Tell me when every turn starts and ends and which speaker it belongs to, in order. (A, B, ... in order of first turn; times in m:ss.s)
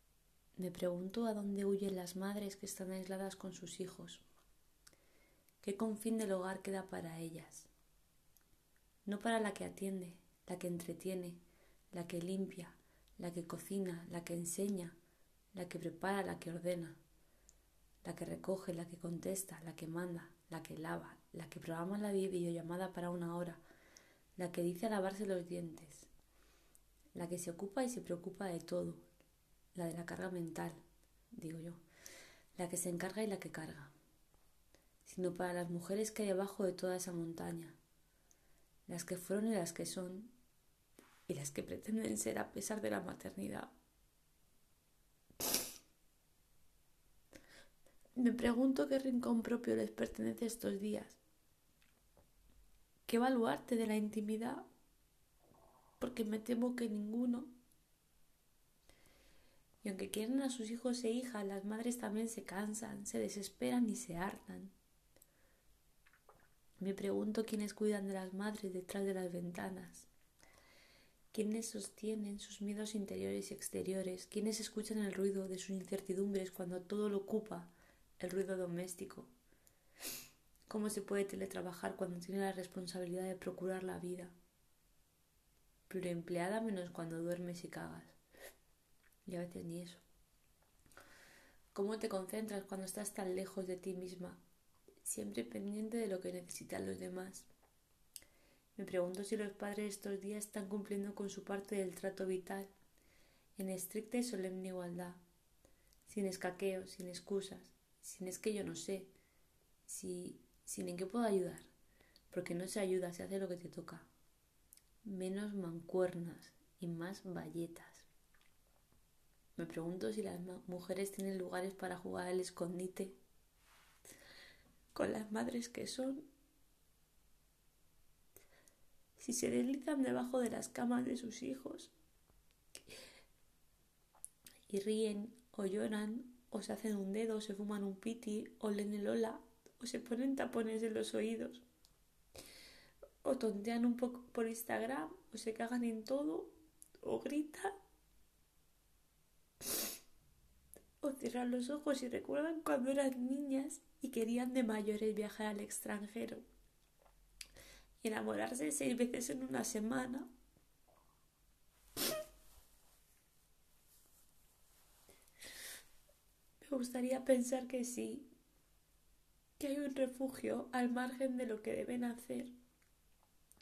0:00.6-0:04.2 A
0:05.6-0:07.7 A
0:09.0-0:11.4 A
0:11.9-0:15.0 A
0:15.5-0:17.0 A
0:18.0-0:23.6 A
0:24.4-0:26.1 A
0:27.2-0:29.0 A
0:29.7-0:30.8 A
0:31.3-0:31.8 A
0:32.6-0:33.9 A
0:35.0-0:37.8 A
0:38.9-0:40.3 A
0:41.3-0:43.7 A
0:48.2-0:51.2 A
0:53.1-0:54.7 A
0:56.0-0:57.5 A
0:59.8-1:04.7 A
1:06.8-1:10.1 A
1:11.3-1:19.3 A
1:20.7-1:24.3 A
1:25.9-1:28.2 A
1:29.2-1:30.0 A
1:31.7-1:34.4 A
1:35.0-1:37.5 A
1:38.8-1:42.7 A
1:43.6-1:45.2 A
1:46.1-1:49.1 A
1:49.9-1:51.7 A
1:52.3-1:54.1 A
1:55.0-1:58.1 A
1:59.6-2:03.2 A
2:04.9-2:06.3 A
2:09.2-2:11.9 A
2:14.7-2:21.6 A
2:23.2-2:27.8 A
2:31.0-2:36.4 A
2:38.0-2:40.3 A
2:46.6-2:48.3 A
2:49.6-2:52.5 A